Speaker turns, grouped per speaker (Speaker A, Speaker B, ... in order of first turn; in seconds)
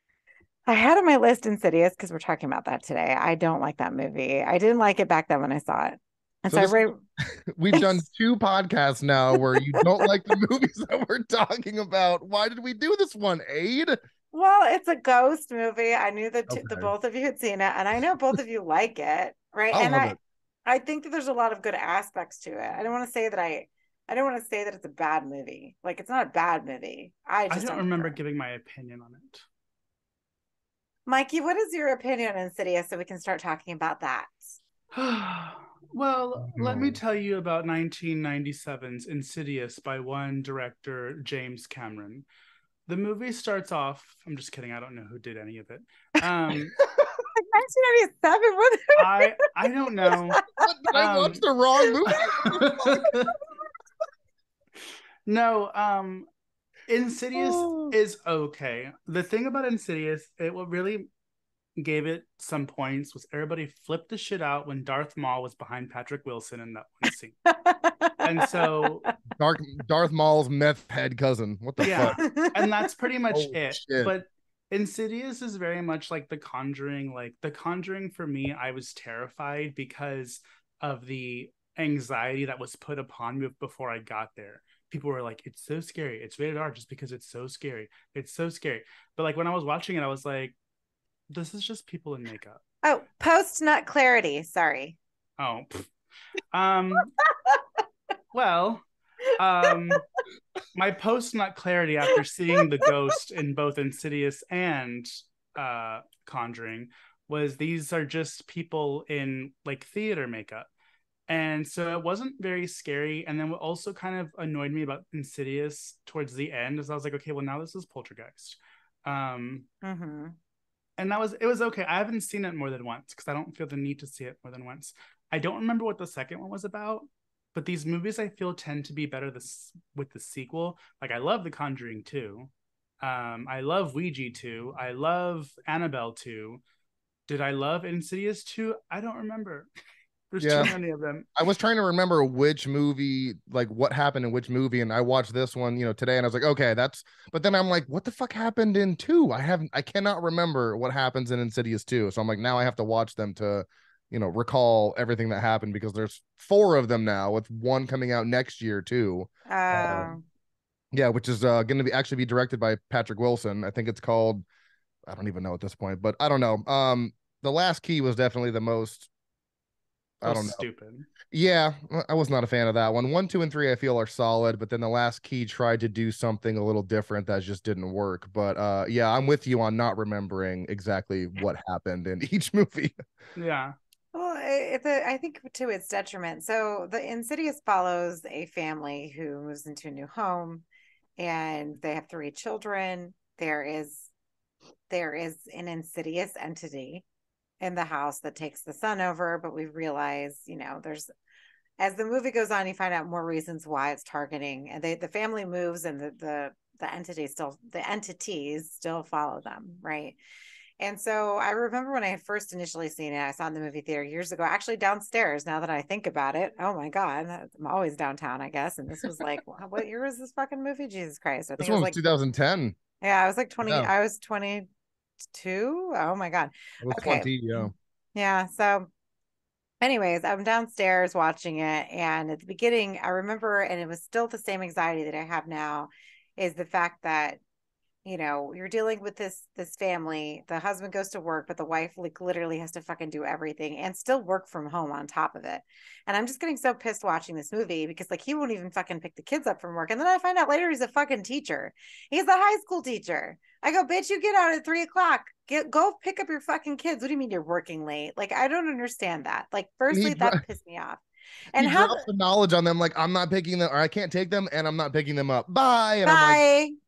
Speaker A: 0.7-7.0, 7.7-8.0, 9.3-10.1, 14.3-28.1, 31.1-34.3, 47.0-49.4, 50.0-50.6, 51.8-52.4, 67.5-69.1, 71.9-72.7, 92.8-95.0, 97.2-97.6, 102.5-102.9, 119.8-120.3, 159.5-160.2, 184.1-190.6, 191.2-194.1, 194.9-197.0, 197.6-201.1, 201.8-210.2, 210.8-222.0, 223.0-224.7, 225.3-228.9, 229.8-237.4, 238.0-262.0, 266.0-266.7
Speaker B: 6.5-14.0, 16.5-16.9, 19.7-20.2, 36.5-37.0, 50.6-53.1, 57.4-58.0, 69.3-72.2, 73.3-74.1, 140.4-140.7, 141.3-160.1, 160.9-164.4, 165.1-169.1, 170.2-170.6, 171.3-183.0, 221.6-222.8, 223.6-223.9, 226.8-227.7, 259.9-260.4, 261.6-266.4
Speaker C: 27.5-29.4, 34.9-42.2, 42.9-46.8, 49.0-51.4, 52.1-53.4, 55.2-56.3, 56.9-61.1, 61.8-67.4, 68.2-69.0, 71.8-90.5, 91.3-92.6, 95.4-95.9, 96.5-97.1, 98.3-100.0, 100.7-110.7, 111.3-119.7, 121.0-136.6, 137.3-139.7, 140.3-141.3, 170.2-171.1, 183.3-183.7